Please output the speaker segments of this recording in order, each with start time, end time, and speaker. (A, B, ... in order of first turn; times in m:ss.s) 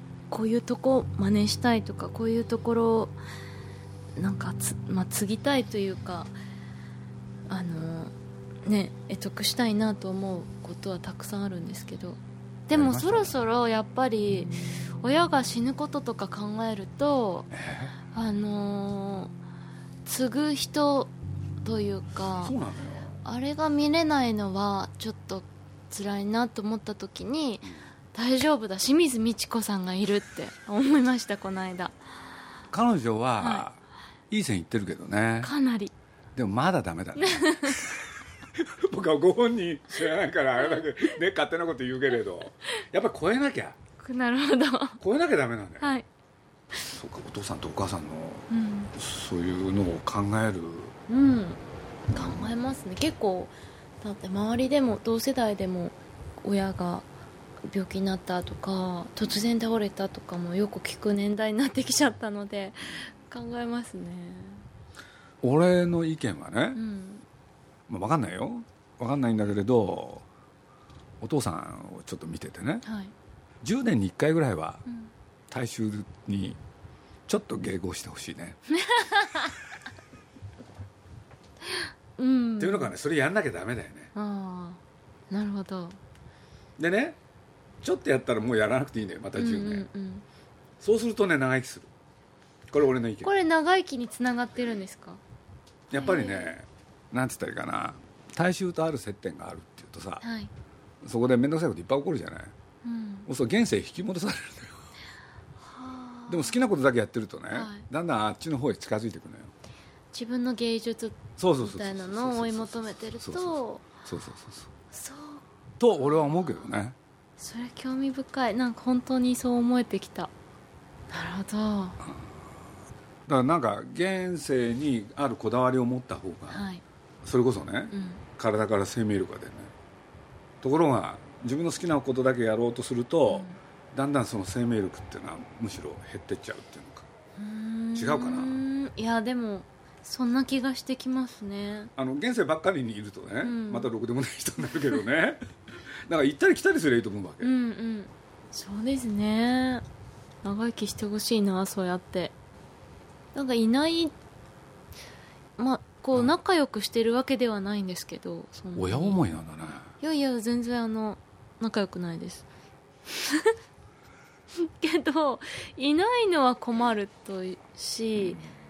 0:00.3-0:03.2 A
0:04.2-0:06.3 A
0:07.5-0:08.1 A
0:08.6-0:17.5 A
0:12.7-0:13.3 B
0:17.5-0:17.9 B
0:18.1-0:19.3 A
0:20.0-0:21.1 A
0:21.6-0:22.5 A
0:22.4-0:23.1 B
0:23.2-0:31.9 A
0:32.7-0:33.8 B
0:33.4-0:33.6 A
0:34.3-0:35.5 B
0:35.4-0:35.9 A
0:36.3-0:38.0 B
0:37.2-0:37.8 A
0:38.6-0:43.8 B
0:44.0-0:45.0 A
0:45.0-0:45.9 B
0:45.8-0:46.0 A
0:46.8-0:50.9 B
0:48.5-0:48.9 A
0:51.1-0:51.6 A
0:52.1-0:57.0 A
0:52.1-0:52.5 B
0:57.7-1:04.6 A
1:05.4-1:06.8 B
1:06.7-1:07.2 A
1:07.9-1:10.2 B
1:11.2-1:12.8 B
1:12.8-1:13.1 A
1:13.6-1:14.8 B
1:15.5-1:16.6 B
1:17.3-1:18.6 B
1:18.8-1:19.5 A
1:22.2-1:22.9 A
1:22.6-1:24.1 B
1:24.1-1:26.0 A
1:26.8-1:27.2 B
1:27.8-1:29.9 B
1:29.4-1:30.2 A
1:30.8-1:31.9 B
1:32.7-1:33.3 B
1:33.2-1:35.2 A
1:35.9-1:36.5 A
1:35.9-1:40.2 B
1:40.2-1:40.5 A
1:41.0-1:42.5 B
1:42.8-1:43.3 A
1:43.3-1:44.8 B
1:45.6-1:46.6 A
1:46.3-1:49.5 B
1:47.5-1:47.8 A
1:50.1-1:53.9 A
1:51.4-1:54.7 B
1:54.9-1:55.4 A
1:55.8-1:56.9 B
1:56.0-1:56.7 A
1:57.4-2:00.3 A
2:01.1-2:02.0 A
2:02.0-2:02.4 B
2:03.3-2:06.6 B
2:06.5-2:06.8 A
2:07.2-2:09.7 B
2:07.9-2:08.2 A
2:10.6-2:17.1 B
2:13.3-2:13.6 A
2:17.4-2:21.9 A
2:18.0-2:18.6 B
2:22.0-2:25.4 B
2:23.4-2:23.9 A
2:26.1-2:27.5 B
2:27.4-2:29.8 A
2:30.4-2:32.3 A
2:33.3-2:34.1 A
2:35.6-2:39.2 A
2:38.7-2:39.9 B
2:40.0-2:42.4 A
2:44.6-2:48.4 A
2:48.2-2:48.5 B